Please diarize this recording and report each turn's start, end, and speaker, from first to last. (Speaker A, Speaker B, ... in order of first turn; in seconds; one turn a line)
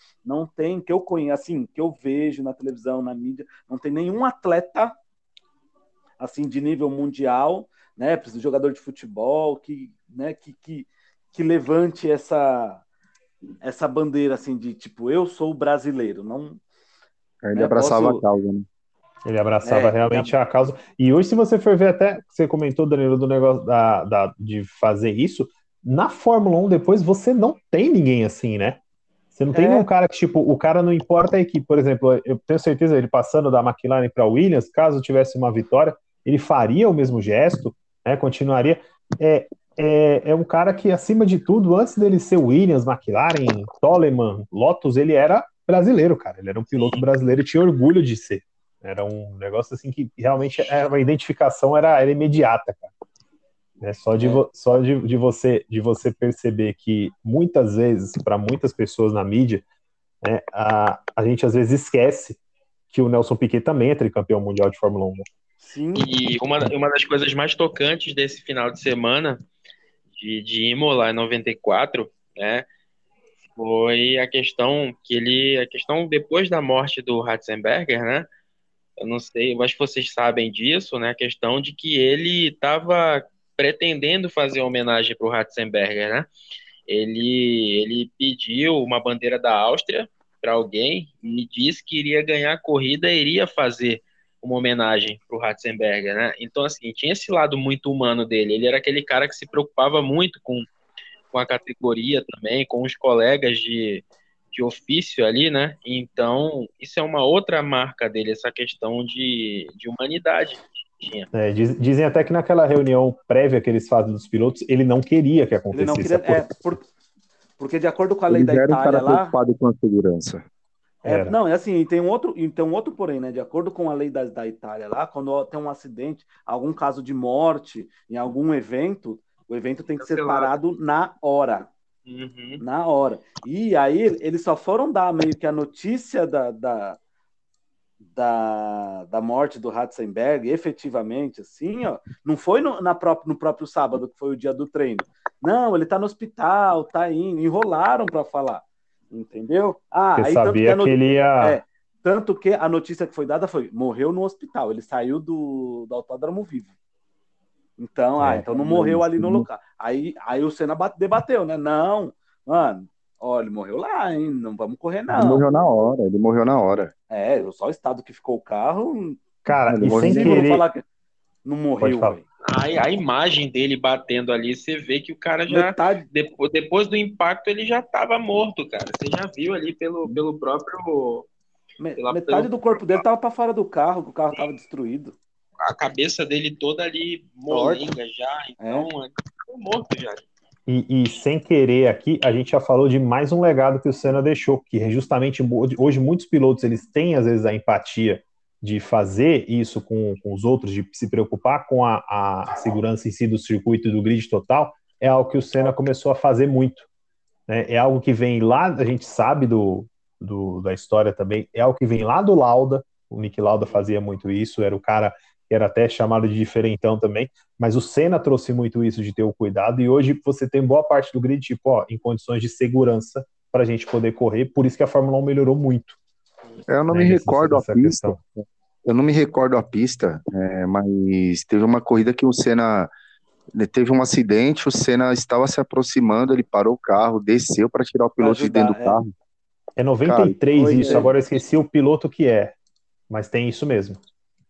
Speaker A: 0.2-4.9
Speaker A: 6.2-12.8
Speaker A: 13.6-16.6
Speaker B: 17.4-18.6
Speaker A: 17.5-18.2
Speaker C: 19.2-28.8
Speaker A: 19.6-20.3
Speaker C: 29.3-52.9
Speaker A: 29.5-29.9
Speaker D: 46.7-47.0
Speaker C: 53.8-59.6
Speaker C: 60.2-62.4
Speaker C: 62.9-65.3
Speaker A: 65.6-66.1
Speaker D: 66.0-69.4
Speaker D: 70.2-72.6
Speaker D: 73.5-78.3
Speaker D: 79.0-86.3
Speaker D: 86.9-100.7
Speaker D: 101.3-111.3
Speaker C: 111.3-116.4
Speaker A: 115.7-116.8
Speaker A: 117.6-119.3
Speaker B: 118.3-120.4
Speaker C: 121.0-121.3
Speaker A: 121.0-131.7
Speaker D: 130.0-130.5
Speaker D: 132.1-132.6
Speaker A: 132.6-137.0
Speaker A: 138.1-156.7
Speaker C: 150.2-151.6
Speaker A: 157.8-165.4
Speaker B: 158.2-159.4
Speaker B: 165.1-166.9
Speaker A: 167.1-169.2
Speaker C: 169.4-170.6
Speaker B: 169.7-170.4
Speaker A: 169.8-170.8
Speaker A: 171.4-172.2
Speaker C: 171.8-172.2
Speaker D: 172.4-181.3
Speaker A: 175.5-176.0
Speaker A: 181.8-185.2
Speaker D: 182.0-183.0
Speaker D: 185.6-190.2
Speaker A: 187.5-187.8
Speaker A: 188.6-188.9
Speaker C: 190.7-206.9
Speaker C: 207.5-226.0
Speaker B: 226.7-232.9
Speaker C: 226.9-228.2
Speaker B: 233.5-239.1
Speaker A: 238.2-239.0
Speaker C: 239.8-242.5
Speaker B: 240.0-241.1
Speaker A: 240.5-241.1
Speaker C: 243.1-244.0